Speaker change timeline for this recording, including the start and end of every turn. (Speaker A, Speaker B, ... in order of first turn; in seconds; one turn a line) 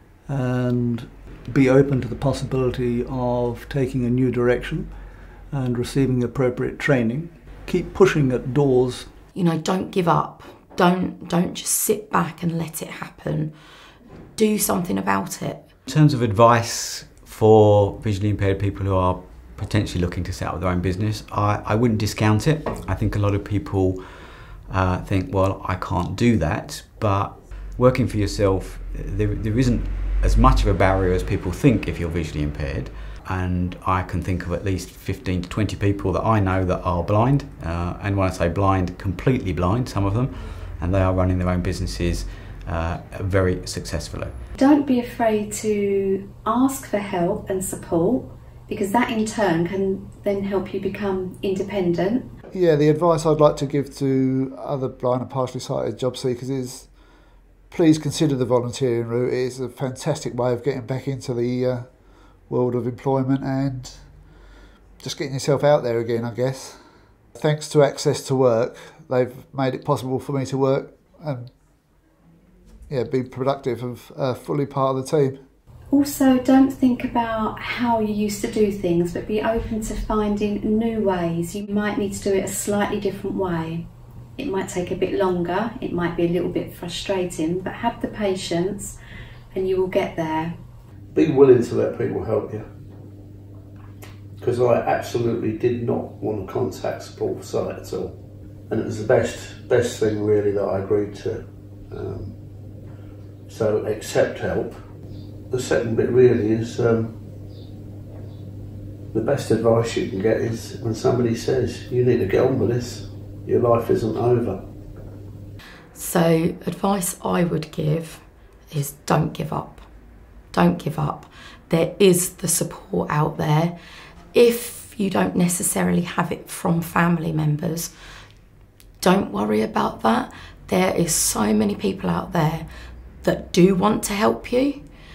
Speaker A: 0.2-9.1
Speaker B: 9.3-13.5
Speaker B: 14.3-15.7
Speaker C: 15.8-44.3
Speaker D: 44.5-52.3
Speaker E: 52.5-56.9
Speaker E: 57.7-61.9
Speaker E: 62.5-64.0
Speaker E: 65.0-66.8
Speaker E: 67.3-71.5
Speaker E: 72.9-75.4
Speaker D: 75.9-89.0
Speaker D: 89.5-90.6
Speaker F: 91.1-92.6
Speaker F: 94.4-98.2
Speaker F: 98.7-102.4
Speaker F: 103.5-104.8
Speaker F: 105.5-107.1
Speaker F: 109.1-114.6
Speaker B: 115.9-119.8
Speaker B: 120.5-123.7
Speaker B: 124.3-127.9
Speaker B: 129.0-132.7
Speaker B: 133.2-134.8